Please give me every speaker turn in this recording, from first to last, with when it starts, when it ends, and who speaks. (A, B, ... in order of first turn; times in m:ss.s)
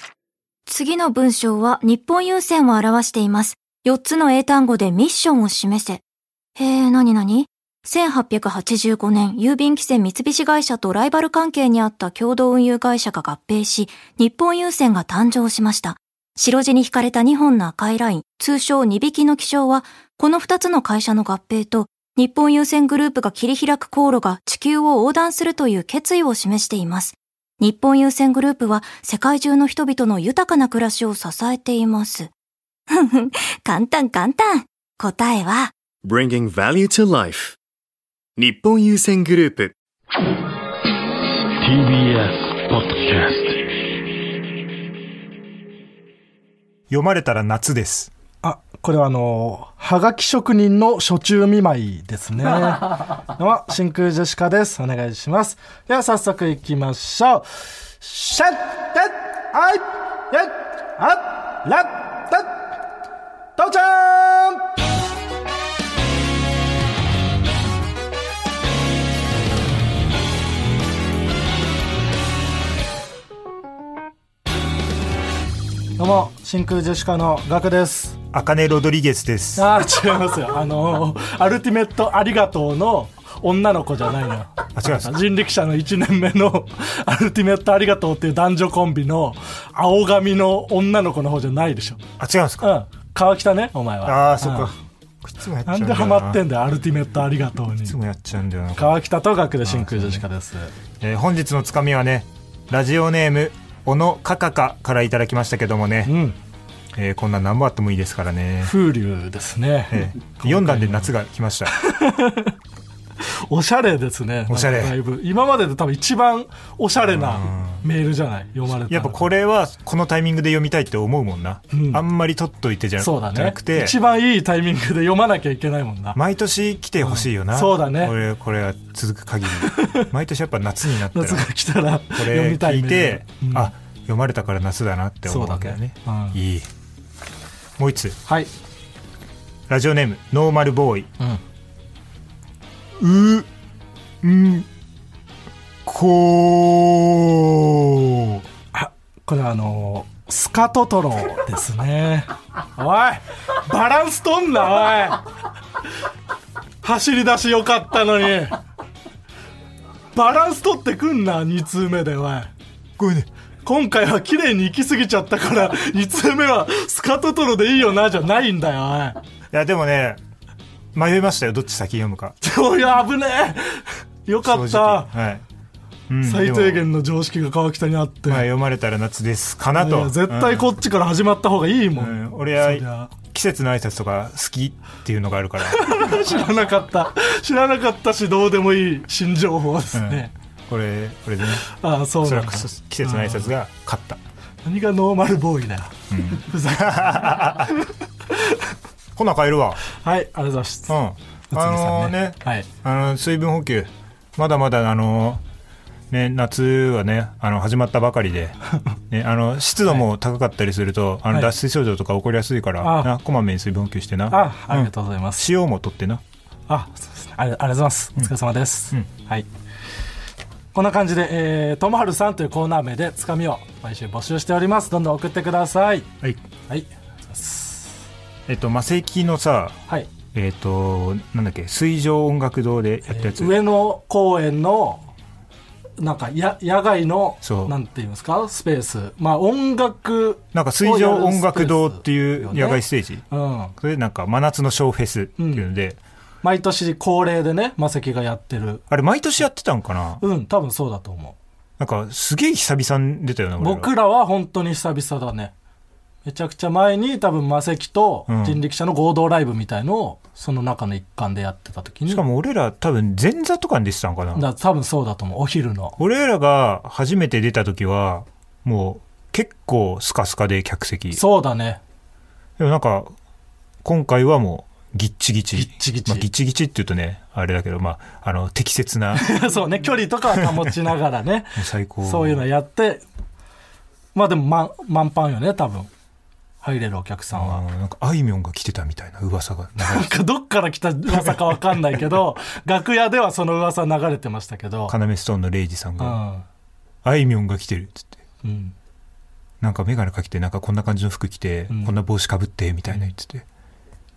0:00.7-0:06.0 A
0:06.6-0:32.3 A
0:32.9-0:35.7 A
0:36.0-0:37.6 B
0:38.4-0:39.7 B
0:41.6-0:43.6 C
0:46.9-0:48.1 D
0:48.4-0:57.5 E
0:58.0-1:02.7 E
1:03.6-1:04.7 E
1:16.0-1:18.2 E
1:18.3-1:19.6 D
1:19.6-1:32.0 E
1:24.8-1:25.2 D
1:32.2-1:32.7 D
1:32.6-1:34.7 E
1:34.0-1:36.4 D
1:35.6-1:38.0 E
1:37.8-1:39.0 D
1:38.8-1:40.7 E
1:39.6-1:40.2 D
1:41.0-1:46.1 D
1:46.0-1:46.4 E
1:46.9-1:48.7 D
1:48.6-1:51.1 E
1:49.9-1:51.8 D
1:51.7-1:52.5 E
1:53.2-1:59.3 E
1:54.5-1:55.0 D
1:57.1-1:57.8 D
1:58.7-2:04.0 D
2:01.7-2:02.0 E
2:03.0-2:06.2 E
2:06.1-2:11.5 D
2:07.0-2:08.1 E
2:09.6-2:10.1 E
2:11.1-2:13.7 E
2:12.1-2:16.7 D
2:15.3-2:16.4 E
2:17.8-2:18.2 D
2:18.2-2:18.5 E
2:19.7-2:21.1 D
2:23.0-2:23.5 D
2:24.2-2:24.7 D
2:25.8-2:28.4 D
2:28.7-2:35.2 E
2:36.8-2:38.6 E
2:40.1-2:42.5 E
2:43.0-2:43.3 D
2:43.6-2:49.2 E
2:49.5-2:50.2 D
2:50.9-2:52.3 D
2:52.4-2:55.1 E
2:54.4-2:55.4 D
2:56.1-2:56.8 D
2:56.2-2:58.5 E
2:58.3-3:00.7 D
2:59.7-3:03.1 E
3:02.0-3:06.0 D
3:05.6-3:10.3 E
3:09.9-3:11.6 D
3:11.6-3:13.5 E
3:12.2-3:14.2 D
3:14.6-3:17.7 E
3:16.1-3:17.8 D
3:18.3-3:18.6 E
3:19.1-3:19.8 D
3:19.9-3:21.0 E
3:20.9-3:25.4 D
3:21.5-3:22.6 E
3:26.1-3:28.6 D
3:29.1-3:36.2 D
3:32.8-3:33.1 E
3:34.3-3:35.4 E
3:36.7-3:39.5 E
3:40.7-3:46.1 E
3:46.7-3:48.0 E
3:48.5-3:49.8 D
3:50.3-3:53.6 D
3:53.1-3:55.1 E
3:56.0-4:03.7 E
3:57.4-3:57.7 D
4:00.5-4:03.2 D
4:03.8-4:06.0 D
4:05.4-4:05.7 E
4:06.4-4:08.8 E
4:08.9-4:10.2 D
4:10.2-4:11.4 E
4:11.8-4:13.9 D
4:13.6-4:15.5 E
4:16.2-4:22.2 E
4:18.3-4:18.6 D
4:22.1-4:24.5 D
4:24.3-4:26.0 E
4:26.0-4:31.2 D
4:31.1-4:31.8 E
4:32.6-4:33.1 D
4:33.8-4:39.3 D
4:35.5-4:36.2 E
4:39.1-4:43.0 E
4:41.6-4:42.4 D
4:44.1-4:45.9 E
4:46.6-4:47.6 E
4:47.3-4:50.2 D
4:49.8-4:54.9 E
4:54.9-4:56.2 D
4:56.0-4:56.4 E
4:57.0-4:58.1 D
4:58.4-4:58.7 E
4:59.6-5:03.4 D